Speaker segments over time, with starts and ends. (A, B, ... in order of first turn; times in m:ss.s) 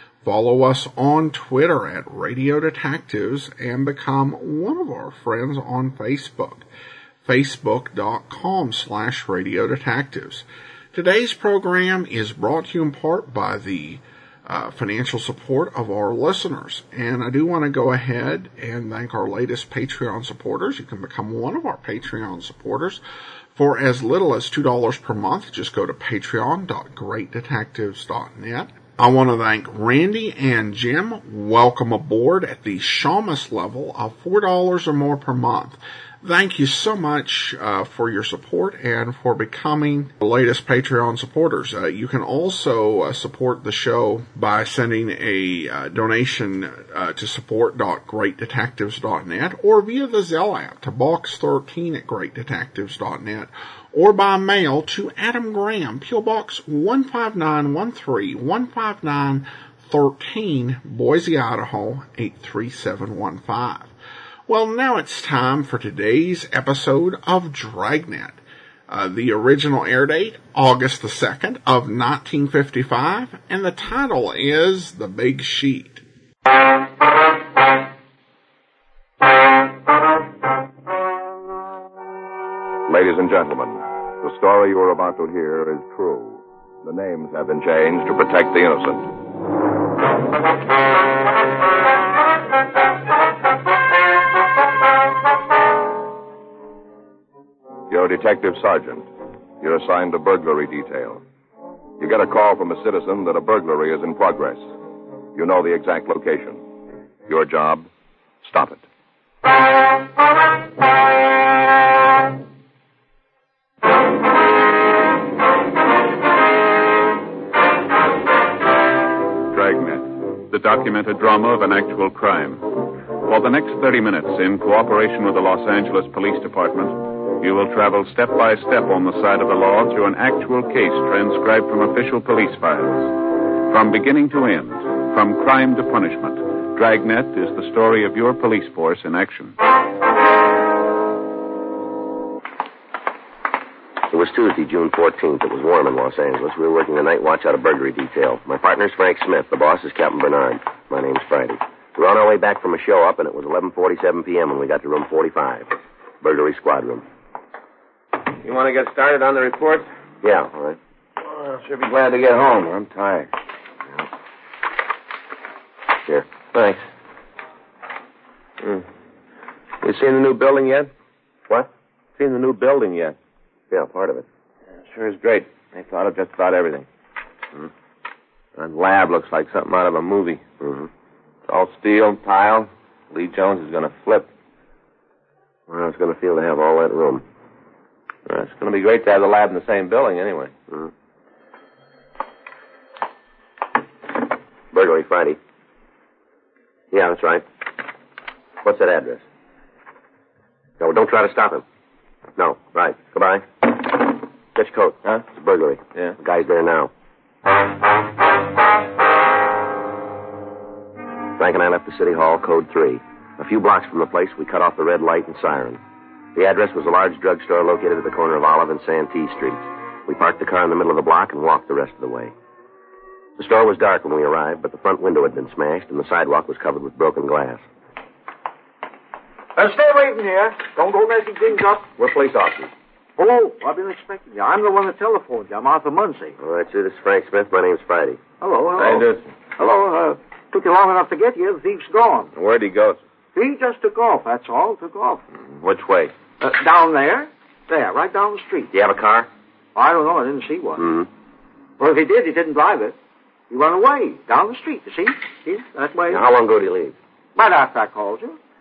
0:00.2-0:06.7 A
0:07.2-0:23.0 A
0:23.6-1:03.9 A
1:04.5-1:16.0 A
1:22.9-1:29.1 B
1:37.9-1:39.1 B
1:39.6-1:41.2 B
1:42.0-1:44.7 B
1:45.4-1:46.6 B
1:47.3-1:47.9 B
1:48.4-1:48.8 B
1:59.5-2:13.1 C
2:13.7-2:19.6 C
2:24.1-2:37.0 D
2:38.4-2:39.9 E
2:40.2-2:40.8 D
2:41.2-2:43.3 E
2:46.5-2:46.8 E
2:48.6-2:48.9 E
2:49.8-2:50.9 E
2:52.2-2:53.2 E
2:53.7-2:54.3 D
2:54.9-2:56.9 E
2:58.6-3:00.4 E
3:00.6-3:00.9 D
3:01.5-3:04.3 E
3:05.7-3:07.2 D
3:08.3-3:10.5 E
3:14.7-3:15.4 D
3:16.9-3:17.5 D
3:18.6-3:19.2 D
3:20.8-3:21.6 D
3:22.4-3:23.8 D
3:24.6-3:26.9 D
3:31.4-3:35.8 D
3:36.4-3:42.3 D
3:43.4-3:47.6 D
3:49.6-3:51.9 F
3:52.0-3:52.7 D
3:53.2-3:56.4 F
3:56.4-3:58.2 D
3:58.4-4:02.3 F
3:58.8-3:59.2 E
4:02.4-4:03.0 E
4:03.4-4:05.2 F
4:05.5-4:06.1 E
4:06.4-4:08.7 F
4:08.7-4:09.3 D
4:09.8-4:10.8 F
4:10.8-4:11.1 D
4:11.8-4:13.0 F
4:13.5-4:16.2 F
4:16.1-4:17.0 D
4:17.4-4:18.4 F